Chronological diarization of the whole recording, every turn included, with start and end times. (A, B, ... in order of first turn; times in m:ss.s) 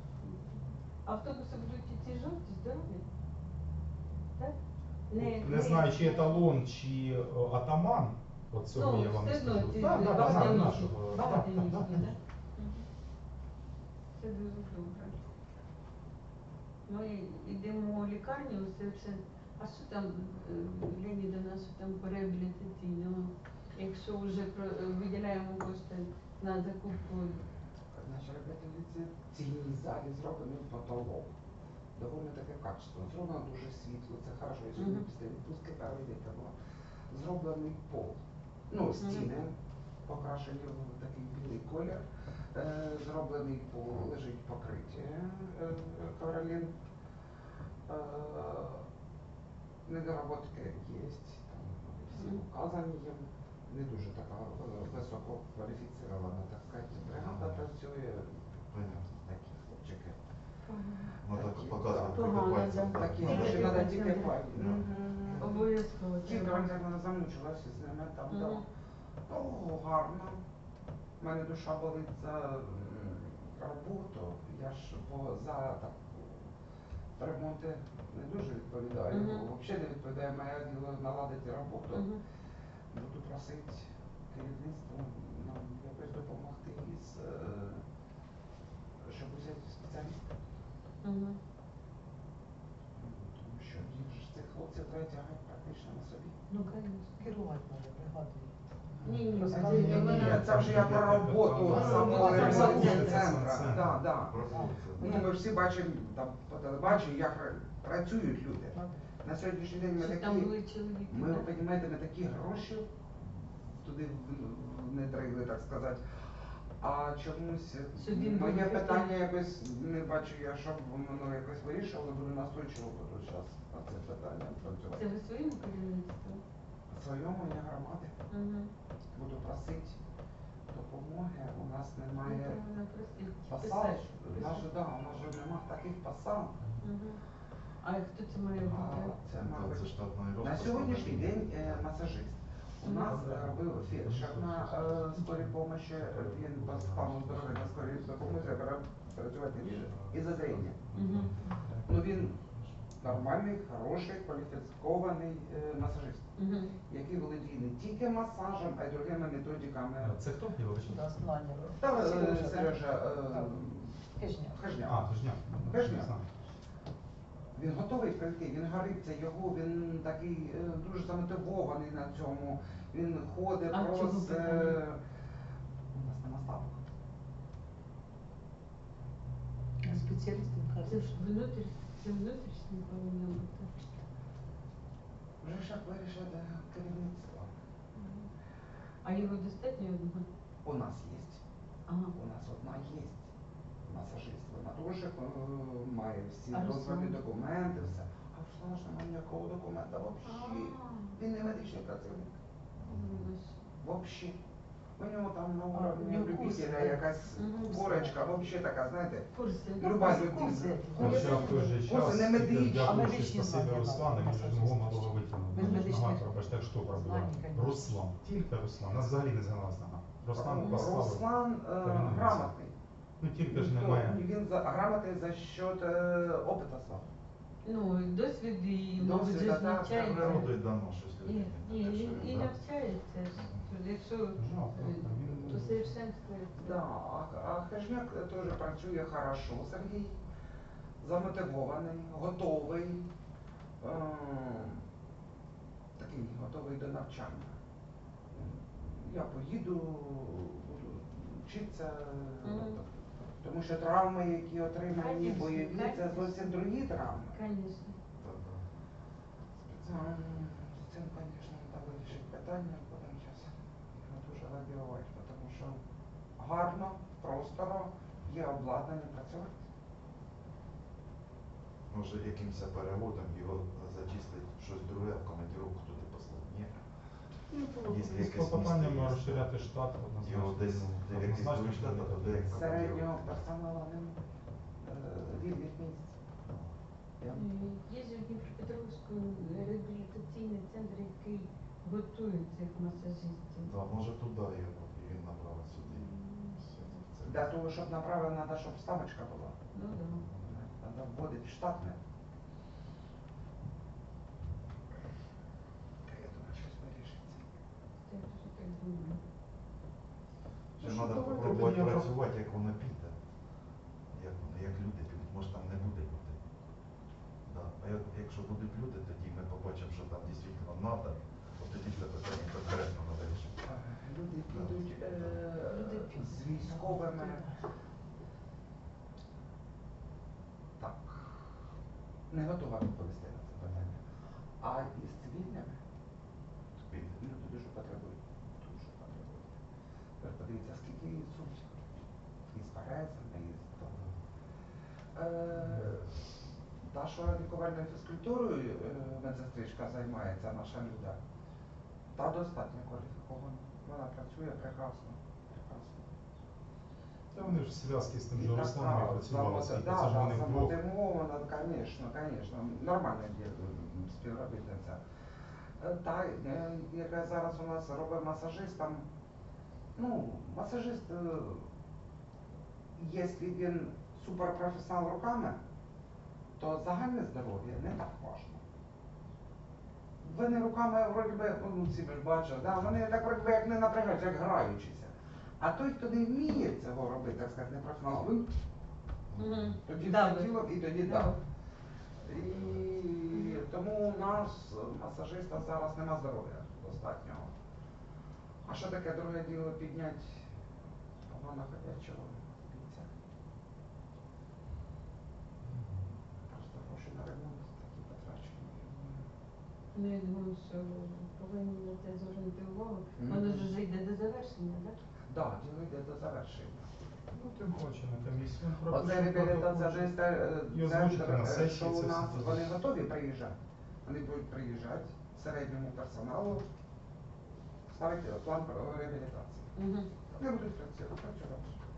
0:00.2-0:03.1 A
0:05.1-0:06.4 A
0:05.2-0:12.1 B
0:08.7-0:12.9 A
0:14.2-0:15.2 A
0:16.9-0:27.4 A
0:27.9-0:31.3 C
0:32.0-0:36.5 C
0:34.8-0:35.1 A
0:37.1-0:38.2 C
0:38.7-0:39.5 C
0:39.0-0:39.3 A
0:40.1-0:42.0 C
0:42.5-0:46.7 C
0:47.9-0:48.9 C
0:49.9-0:58.5 C
0:52.1-0:52.4 A
0:57.1-0:57.7 D
0:58.6-0:59.6 D
0:59.2-1:00.2 C
1:00.6-1:01.2 A
1:01.2-1:03.9 D
1:01.3-1:02.3 C
1:02.1-1:04.8 A
1:02.9-1:08.6 C
1:04.5-1:04.8 D
1:05.4-1:06.7 A
1:08.3-1:08.6 A
1:09.3-1:10.4 C
1:11.2-1:16.5 C
1:17.2-1:22.1 C
1:19.1-1:19.5 A
1:21.9-1:22.2 A
1:22.9-1:27.8 C
1:29.0-1:30.4 C
1:31.0-1:31.4 A
1:33.0-1:36.4 C
1:36.5-1:40.6 E
1:36.8-1:37.2 A
1:38.9-1:44.4 C
1:39.0-1:40.5 A
1:39.6-1:44.0 B
1:41.7-1:43.0 E
1:41.7-1:43.4 A
1:43.6-1:45.3 D
1:44.5-1:44.8 E
1:45.0-1:50.5 C
1:45.0-1:45.3 A
1:48.7-1:49.0 E
1:50.0-1:51.5 A
1:51.1-1:52.9 C
1:53.6-1:56.2 C
1:56.8-2:05.1 C
1:58.0-1:59.1 A
2:04.9-2:06.4 A
2:06.9-2:08.1 C
2:08.3-2:08.7 A
2:09.2-2:10.0 C
2:10.7-2:12.6 C
2:12.2-2:14.7 A
2:13.5-2:16.6 C
2:16.6-2:16.8 B
2:16.8-2:17.2 A
2:17.8-2:19.2 A
2:18.6-2:30.8 C
2:19.3-2:21.8 D
2:22.8-2:23.1 A
2:23.0-2:28.6 B
2:29.6-2:33.2 B
2:30.9-2:31.3 A
2:31.9-2:32.3 C
2:33.0-2:36.4 C
2:36.4-2:36.8 A
2:36.9-2:40.2 C
2:40.0-2:41.2 B
2:40.8-2:43.6 E
2:41.8-2:46.1 C
2:44.2-2:44.6 E
2:44.8-2:46.2 B
2:47.5-2:55.0 C
2:53.7-2:54.8 A
2:55.9-2:56.8 C
2:59.8-3:01.3 E
3:00.8-3:03.9 A
3:05.4-3:07.5 C
3:08.0-3:08.3 A
3:09.0-3:10.3 A
3:10.6-3:11.4 C
3:11.9-3:12.2 A
3:12.1-3:13.2 C
3:13.8-3:22.4 C
3:16.5-3:17.2 A
3:20.2-3:21.2 A
3:22.8-3:23.3 D
3:22.8-3:23.6 A
3:23.8-3:24.4 C
3:25.0-3:33.2 C
3:25.7-3:28.5 E
3:27.4-3:27.8 A
3:29.3-3:30.1 A
3:29.9-3:31.8 E
3:31.0-3:41.3 B
3:31.0-3:31.6 A
3:32.8-3:36.3 E
3:35.6-3:35.9 C
3:36.9-3:38.0 E
3:40.3-3:42.7 C
3:40.6-3:40.9 A
3:41.8-3:42.5 B
3:43.2-3:44.2 B
3:43.5-3:47.1 C
3:47.6-3:50.6 A
3:49.0-3:50.4 C
3:49.9-3:52.5 D
3:51.2-3:56.8 A
3:53.4-3:53.7 D
3:54.4-3:55.9 B
3:56.6-4:00.2 C
4:01.0-4:03.1 C
4:03.8-4:04.8 C
4:06.0-4:07.6 C
4:08.3-4:17.4 C
4:12.4-4:12.8 A
4:14.9-4:16.7 A
4:17.3-4:18.0 A
4:18.2-4:18.6 D
4:19.6-4:20.3 D
4:19.8-4:25.8 C
4:26.4-4:29.6 C
4:31.9-4:36.8 D
4:37.5-4:42.9 B
4:37.9-4:39.5 D
4:40.2-4:43.2 D
4:42.5-4:44.2 C
4:44.8-4:46.2 C
4:46.4-4:46.7 D
4:47.2-4:47.5 C
4:47.3-4:53.7 A
4:53.6-4:56.1 D
4:55.9-4:57.1 A
4:57.2-4:57.5 D
4:57.2-4:59.6 C
4:59.7-5:00.3 A
5:00.4-5:02.0 C
5:06.0-5:07.4 C
5:08.1-5:09.2 A
5:10.8-5:13.2 D
5:10.8-5:12.1 B
5:14.1-5:16.4 D
5:17.5-5:23.5 D
5:23.6-5:27.4 C
5:24.5-5:25.4 D
5:25.7-5:27.7 E
5:30.8-5:31.4 C
5:32.3-5:34.0 C
5:34.6-5:35.8 C
5:36.8-5:37.2 D
5:37.2-5:39.6 C
5:40.2-5:42.0 C
5:42.5-5:44.0 C
5:43.9-5:44.2 D
5:45.2-5:46.1 C
5:46.8-5:51.2 C
5:52.2-5:56.1 C
5:57.3-6:00.8 B
5:58.3-6:05.0 C
6:05.8-6:09.0 C
6:10.0-6:11.7 C
6:13.0-6:15.6 C
6:16.6-6:18.6 C
6:20.2-6:28.5 C
6:29.3-6:29.7 D
6:29.4-6:31.4 A
6:29.9-6:31.3 C
6:32.2-6:37.5 C
6:33.3-6:33.6 A
6:38.6-6:40.5 C
6:41.2-6:43.1 C
6:46.5-6:49.3 C
6:49.9-6:55.0 A
6:53.2-6:53.7 C
6:55.3-6:56.9 C
6:57.3-7:00.1 B
6:58.9-7:06.6 C
7:00.7-7:02.6 B
7:07.9-7:09.7 C
7:09.8-7:10.1 A
7:10.3-7:11.8 C